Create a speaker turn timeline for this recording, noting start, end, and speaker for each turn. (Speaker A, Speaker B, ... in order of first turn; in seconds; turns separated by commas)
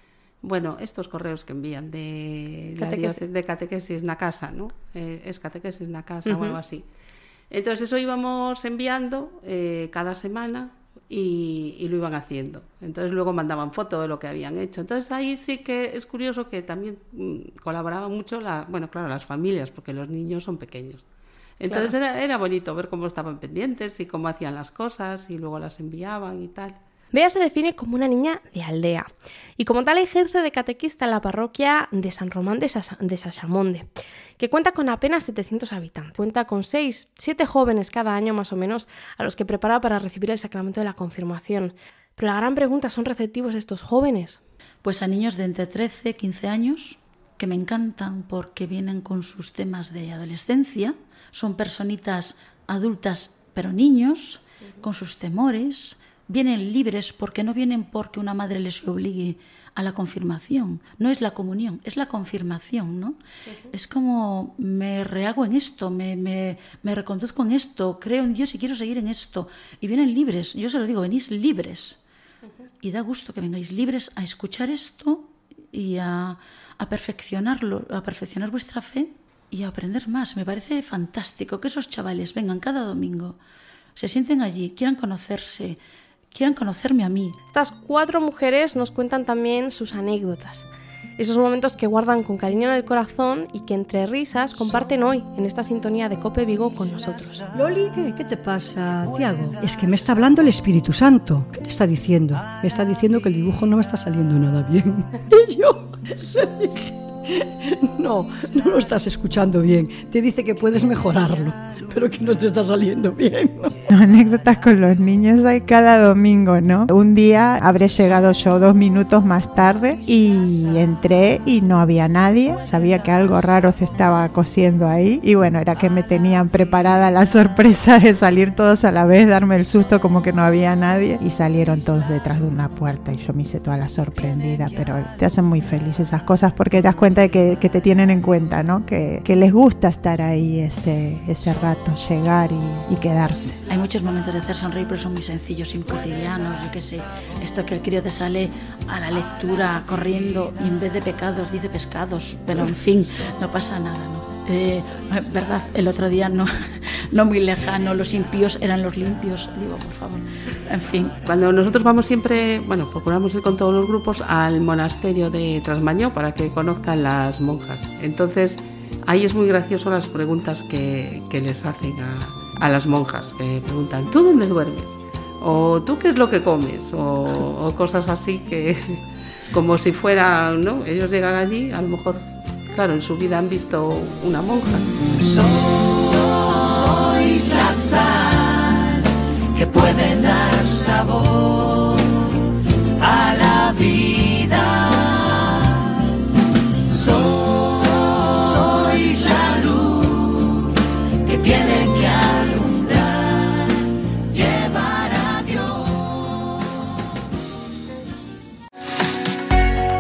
Speaker A: 0.4-6.8, Speaker B: 2.8-3.2, Speaker B: 6.3-6.6, Speaker A: 7.5-21.0, Speaker A: 21.6-26.8, Speaker B: 21.6-21.9, Speaker B: 27.1-44.4, Speaker C: 44.8-63.2, Speaker C: 63.7-72.0, Speaker C: 72.8-83.4, Speaker C: 84.0-85.8, Speaker C: 86.3-87.4, Speaker B: 87.5-97.4, Speaker D: 97.5-113.7, Speaker E: 113.9-143.6, Speaker C: 143.7-161.2, Speaker A: 161.3-184.9, Speaker F: 185.4-185.7, Speaker F: 186.3-188.7, Speaker F: 189.6-191.6, Speaker F: 193.0-195.1, Speaker F: 197.0-200.4, Speaker F: 201.2-203.3, Speaker F: 204.3-205.8